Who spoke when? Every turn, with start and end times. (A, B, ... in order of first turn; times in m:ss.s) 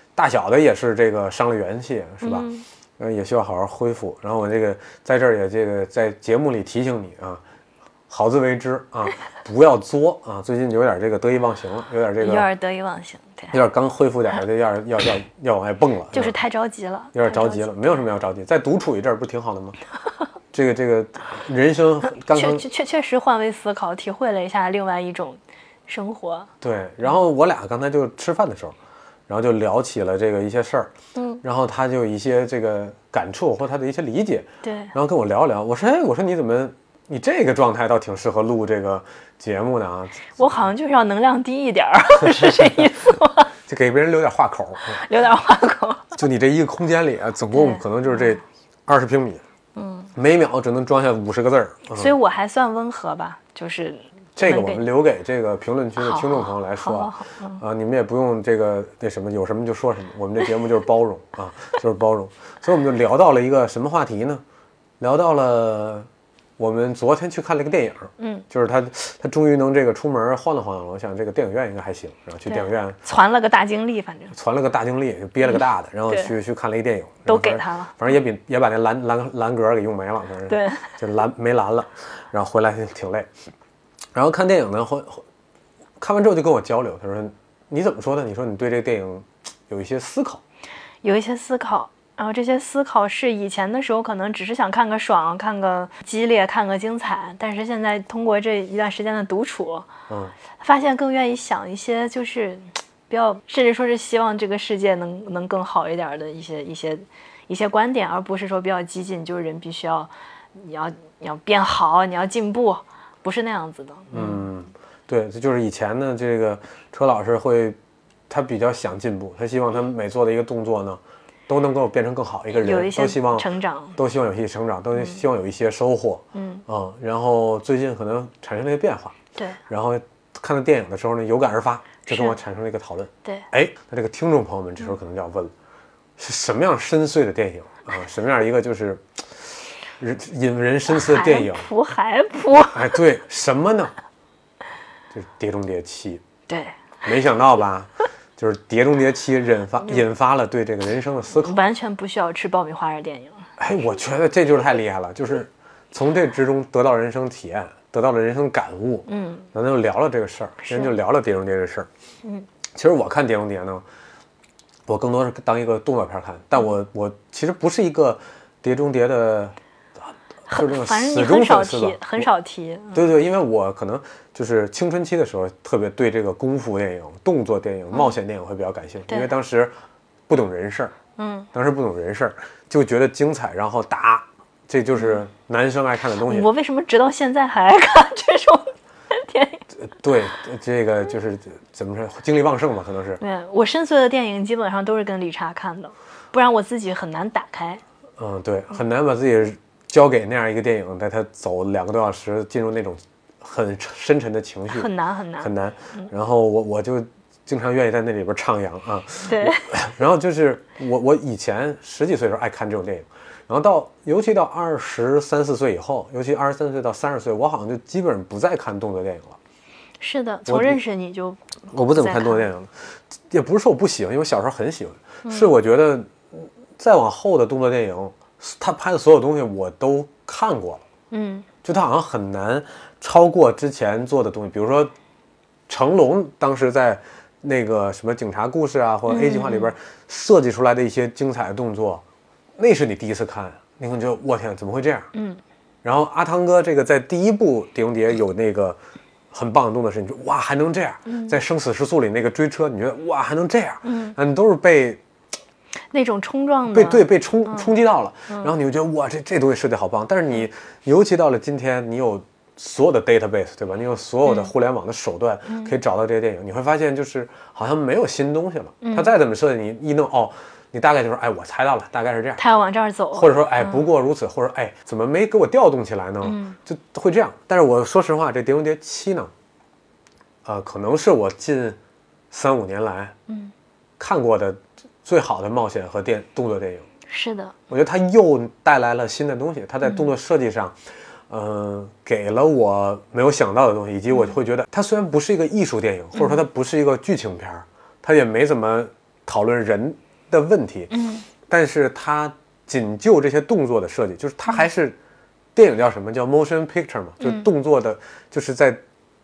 0:00.1-0:02.5 A
0:02.2-0:02.6 B
0:03.0-0:07.4 A
0:08.1-0:12.5 A
0:12.2-0:13.6 B
0:13.5-0:16.4 A
0:16.1-0:17.7 B
0:17.1-0:19.8 A
0:20.5-0:22.6 A
0:22.3-0:26.5 B
0:26.6-0:28.7 A
0:29.3-0:30.9 A
0:31.2-0:31.4 B
0:31.4-0:40.4 A
0:34.6-0:34.9 B
0:40.4-0:43.5 B
0:42.3-0:42.9 A
0:43.7-0:45.0 A
0:44.9-0:46.2 B
0:46.2-0:49.4 A
0:47.5-0:48.3 B
0:49.8-0:50.1 B
0:50.1-0:52.1 A
0:51.9-0:54.9 B
0:54.4-1:04.4 A
0:56.0-0:57.6 B
1:05.0-1:06.1 A
1:06.6-1:13.0 A
1:08.2-1:08.4 B
1:12.5-1:14.3 B
1:14.3-1:23.3 A
1:15.5-1:16.3 B
1:17.3-1:18.0 B
1:20.5-1:21.0 B
1:24.1-1:25.2 A
1:26.0-1:30.4 A
1:31.0-1:39.9 B
1:40.1-1:40.3 A
1:40.6-1:54.4 B
1:54.1-1:57.8 A
1:58.3-2:09.2 A
2:02.5-2:04.0 B
2:06.3-2:06.6 B
2:09.7-2:15.5 A
2:12.1-2:12.4 B
2:16.2-2:21.7 A
2:20.9-2:23.0 B
2:22.7-2:23.9 A
2:25.1-2:26.2 A
2:26.5-2:26.8 B
2:27.0-2:31.6 A
2:31.3-2:33.5 B
2:33.6-2:41.9 A
2:39.1-2:39.5 B
2:40.6-2:40.9 B
2:42.7-2:43.8 A
2:44.9-2:49.6 A
2:50.5-2:53.1 B
2:50.5-2:52.3 A
2:52.9-2:59.7 A
3:00.3-3:00.9 A
3:01.2-3:01.5 B
3:01.5-3:06.5 A
3:05.0-3:05.2 B
3:06.2-3:09.6 B
3:09.8-3:13.2 A
3:13.2-3:17.8 B
3:18.2-3:39.4 A
3:24.7-3:26.1 B
3:29.2-3:29.7 B
3:40.0-3:42.4 B
3:40.5-3:40.8 A
3:41.7-3:50.8 A
3:51.1-3:51.5 B
3:51.6-3:54.9 A
3:55.7-4:02.0 A
3:59.1-3:59.7 B
4:02.6-4:05.1 A
4:05.1-4:05.4 B
4:05.8-4:08.8 A
4:09.3-4:15.0 A
4:11.1-4:11.4 B
4:13.8-4:14.2 B
4:15.9-4:17.7 B
4:16.7-4:32.4 A
4:24.2-4:24.5 B
4:25.5-4:25.7 B
4:28.8-4:29.1 B
4:32.4-4:33.8 B
4:33.1-4:39.3 A
4:36.2-4:36.6 B
4:40.4-4:41.8 A
4:42.3-4:43.1 A
4:43.3-4:43.5 B
4:44.0-4:46.8 A
4:47.1-4:47.5 B
4:47.7-4:50.8 A
4:51.3-5:00.9 A
4:56.1-4:56.4 B
5:00.9-5:01.2 B
5:01.5-5:05.0 A
5:05.5-5:08.8 A
5:07.2-5:07.5 B